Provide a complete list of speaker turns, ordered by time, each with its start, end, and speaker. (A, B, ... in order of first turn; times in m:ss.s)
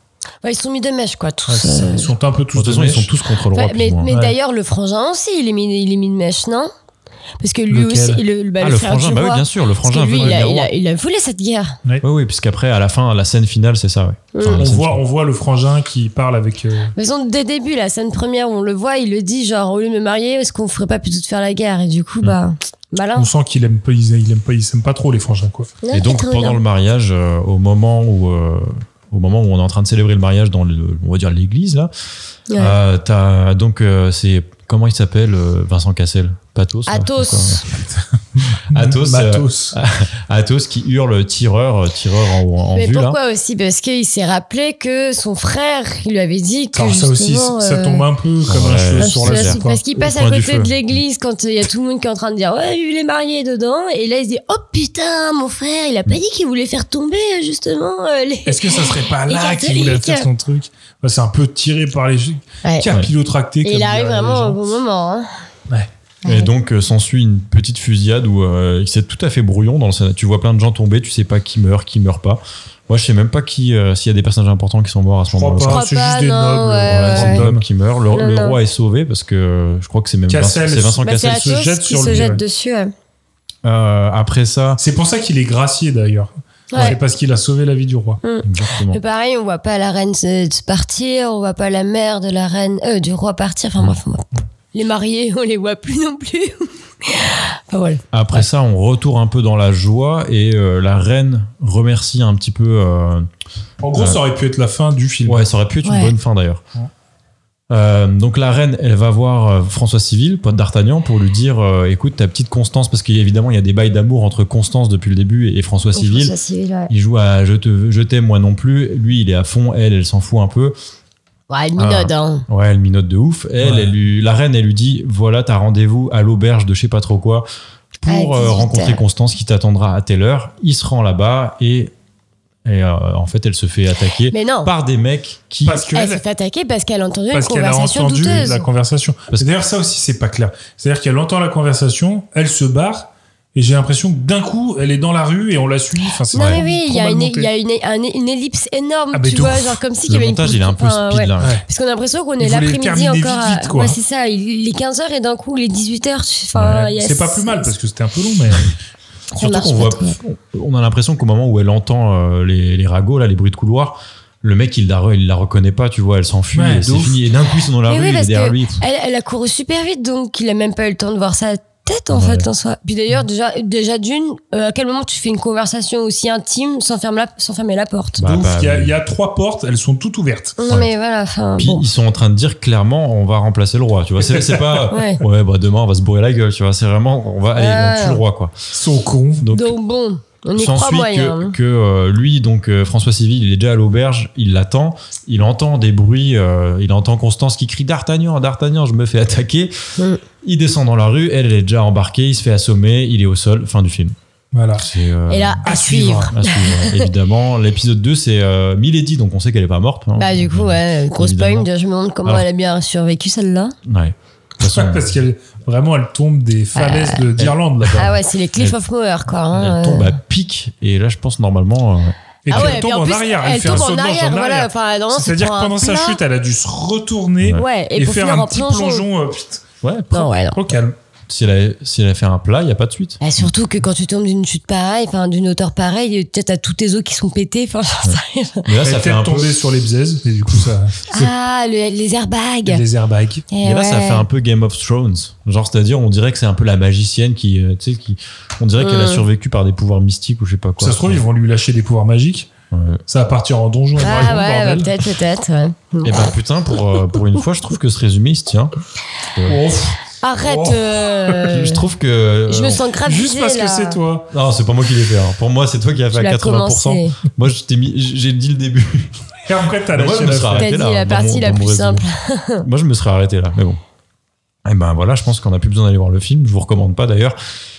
0:00.4-0:02.1 A
0:01.5-0:03.1 B
0:02.5-0:04.1 C
0:03.5-0:06.7 A
0:04.1-0:04.4 B
0:07.4-0:11.8 A
0:07.7-0:08.2 B
0:08.6-0:10.7 C
0:12.0-0:15.0 C
0:14.3-0:14.6 A
0:14.5-0:16.9 B
0:17.0-0:23.3 A
0:23.2-0:25.7 B
0:25.8-0:26.6 A
0:25.9-0:31.9 C
0:32.5-0:32.8 A
0:32.6-0:37.8 C
0:36.9-0:37.7 A
0:38.4-0:39.8 B
0:38.7-0:43.2 C
0:42.7-0:48.0 A
0:46.7-0:49.8 B
0:48.5-0:50.8 C
0:49.0-1:00.3 A
0:58.5-1:04.6 B
1:02.6-1:02.9 A
1:03.6-1:05.3 A
1:06.2-1:06.5 A
1:06.3-1:15.8 C
1:15.3-1:17.6 B
1:15.7-1:17.4 A
1:16.9-1:22.3 C
1:18.1-1:18.6 A
1:20.3-1:22.4 B
1:21.0-1:22.9 A
1:23.6-1:24.8 C
1:24.8-1:28.2 B
1:26.7-1:27.0 A
1:28.2-1:38.4 A
1:28.4-1:29.0 C
1:38.1-1:43.3 C
1:43.8-1:45.4 B
1:43.9-1:44.2 C
1:45.2-1:46.6 C
1:45.8-1:46.1 A
1:47.7-1:56.3 C
1:56.0-1:56.9 A
1:56.9-2:00.8 C
2:01.5-2:02.5 A
2:01.8-2:07.5 C
2:03.6-2:03.9 B
2:08.0-2:11.9 C
2:08.1-2:09.0 A
2:12.6-2:15.9 C
2:14.3-2:14.7 A
2:15.6-2:16.2 B
2:15.9-2:18.6 A
2:17.3-2:27.5 B
2:26.3-2:37.7 A
2:26.4-2:26.6 C
2:29.1-2:29.8 B
2:30.1-2:31.6 C
2:32.4-2:34.0 B
2:36.6-2:38.8 B
2:39.4-2:40.2 A
2:39.4-2:48.8 C
2:46.5-2:47.2 B
2:47.9-2:58.2 A
2:52.1-2:52.5 C
2:58.2-2:58.9 C
2:58.2-3:00.6 B
3:00.6-3:01.8 A
3:01.6-3:08.5 C
3:04.3-3:04.9 B
3:04.9-3:05.2 A
3:07.6-3:08.2 A
3:08.7-3:09.5 B
3:09.4-3:09.8 C
3:09.5-3:11.5 A
3:10.6-3:19.7 C
3:20.4-3:24.2 C
3:24.5-3:24.9 B
3:24.8-3:25.6 C
3:25.3-3:27.1 A
3:25.6-3:26.3 B
3:26.3-3:31.7 C
3:30.2-3:33.8 A
3:33.9-3:35.1 C
3:34.6-3:38.1 B
3:36.8-3:37.2 A
3:37.4-3:38.8 C
3:38.0-3:40.1 A
3:39.5-3:42.8 C
3:42.4-3:49.7 B
3:42.5-3:46.2 A
3:47.6-3:49.0 A
3:49.8-3:50.3 C
3:50.1-3:50.6 A
3:50.5-3:51.0 B
3:51.3-3:53.5 C
3:53.2-3:58.6 A
3:58.0-3:59.5 C
3:58.8-4:01.3 B
4:01.1-4:02.8 A
4:02.7-4:03.5 B
4:03.5-4:04.2 A
4:03.6-4:11.2 C
4:08.8-4:09.2 A
4:10.8-4:12.5 B
4:12.7-4:13.0 C
4:13.1-4:14.9 B
4:14.0-4:16.3 A
4:16.0-4:18.7 C
4:19.3-4:19.6 C
4:19.5-4:21.4 B
4:20.2-4:21.8 A
4:21.5-4:22.8 C
4:22.5-4:24.0 A
4:23.0-4:24.3 B
4:24.3-4:29.2 C
4:26.1-4:27.2 A
4:29.5-4:30.7 B
4:29.9-4:32.1 C
4:30.6-4:32.6 A
4:32.6-4:33.8 C
4:34.6-4:37.4 C